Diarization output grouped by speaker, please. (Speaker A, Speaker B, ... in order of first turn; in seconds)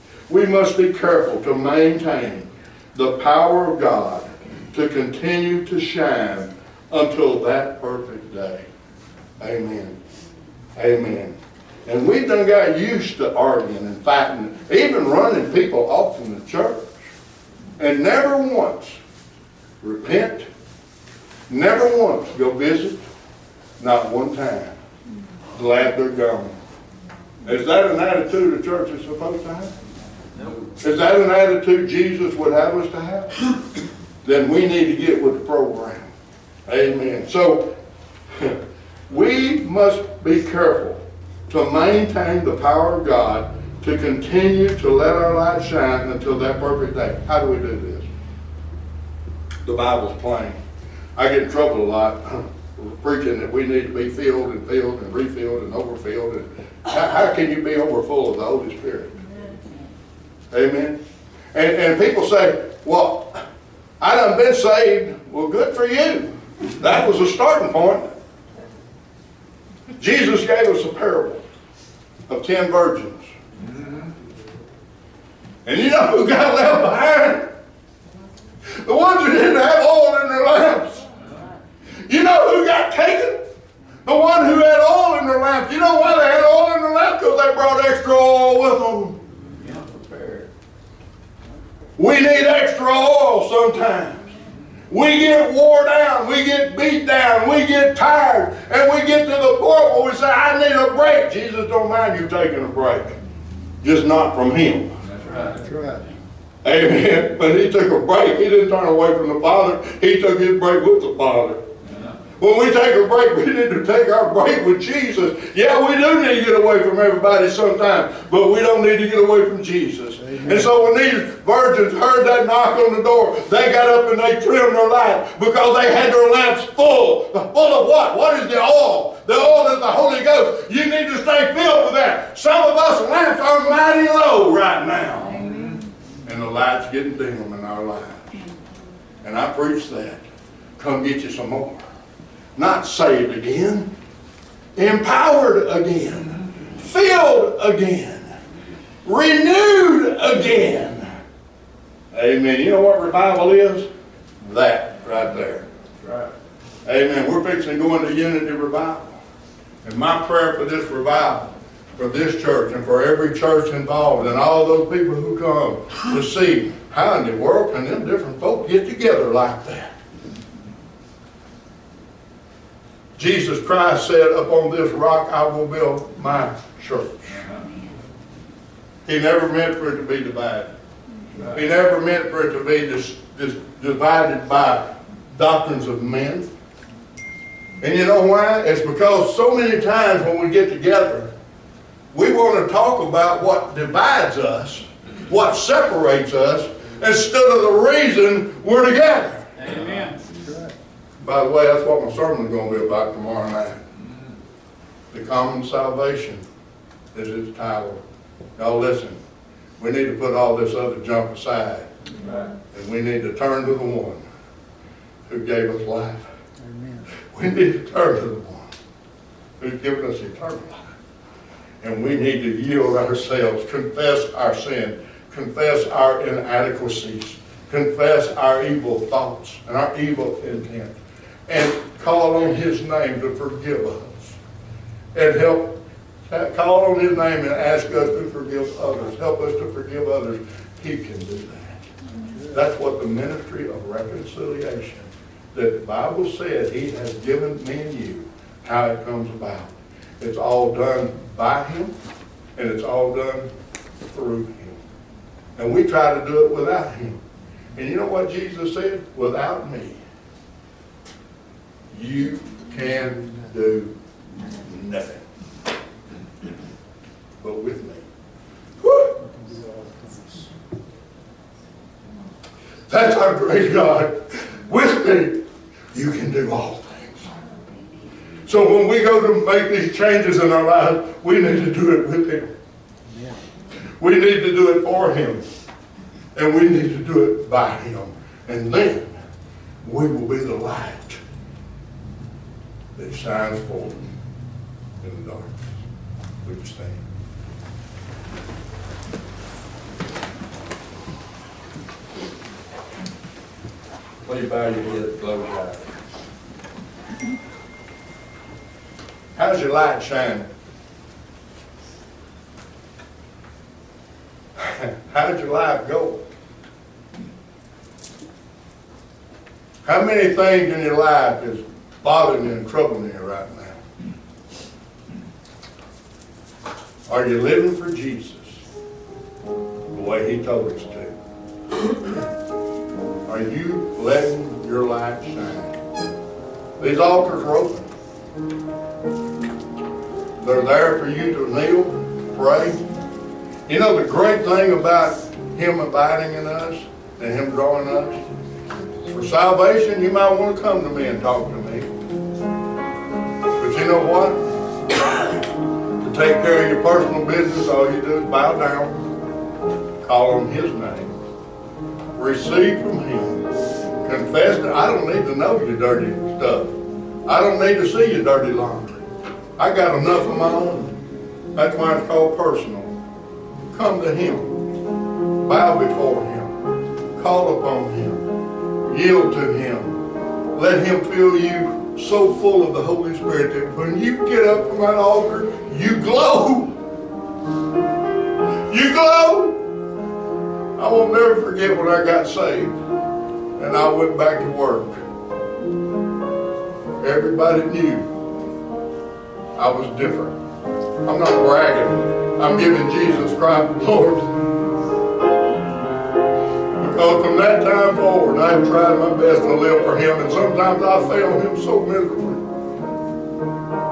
Speaker A: 0.3-8.7, 9.4-10.0, 10.8-16.9, 17.8-19.0, 19.8-20.5, 21.5-23.0, 23.8-24.8, 25.5-26.5, 27.4-29.7, 30.8-33.4, 34.2-36.1, 36.6-37.7, 39.1-48.1, 49.6-50.6, 51.1-59.1, 60.5-61.0, 61.5-63.4, 64.0-68.1, 70.0-71.4, 72.3-73.3, 75.6-77.5, 78.8-81.0, 82.0-83.4, 84.0-89.2, 92.0-94.3, 94.9-103.2, 103.8-104.9, 106.6-111.6, 112.4-135.5, 136.2-138.3, 139.2-140.2, 140.8-141.8, 142.6-143.9, 144.8-148.3, 149.0-151.1, 152.1-153.9, 154.4-155.7, 156.8-159.2, 159.8-169.9, 173.2-177.4, 179.1-180.7, 181.4-186.5, 187.8-191.3, 192.1-199.4, 201.2-203.8, 205.1-206.4, 207.1-208.0, 208.6-209.2, 209.8-211.9, 212.7-214.2, 215.3-216.2, 217.3-218.7, 219.6-220.9, 221.8-231.0, 231.5-234.4, 235.1-241.8, 242.5-251.9, 252.6-253.5, 254.0-254.8, 255.6-257.2, 257.7-260.0, 261.9-265.2, 267.4-268.0, 268.8-269.1, 272.9-275.4, 275.9-277.3, 278.4-282.5, 284.0-285.4, 286.3-289.1, 289.8-291.2, 292.9-294.1, 295.0-295.6, 296.4-297.0, 304.2-305.8, 309.3-310.5, 314.6-316.2, 319.8-323.8, 327.1-328.6, 329.9-331.1, 333.3-335.8, 336.8-337.9, 340.4-342.8, 343.7-348.2, 349.1-351.9, 353.6-354.4, 356.0-359.0, 360.0-361.1, 362.1-363.5, 364.0-371.0, 371.5-372.9, 373.7-374.6, 375.4-376.5, 377.1-378.2, 378.8-380.0, 380.5-386.7, 388.7-389.6, 390.8-392.7, 393.6-395.0, 397.0-398.1, 399.6-400.4, 401.0-404.3, 406.8-412.4
Speaker B: 73.6-74.1, 89.6-90.5, 105.1-105.6, 111.9-112.1, 156.0-156.3, 199.6-200.2, 212.2-212.5
Speaker C: 105.5-106.1, 120.2-120.7, 200.3-200.7, 216.6-217.1, 269.2-270.5, 283.1-283.4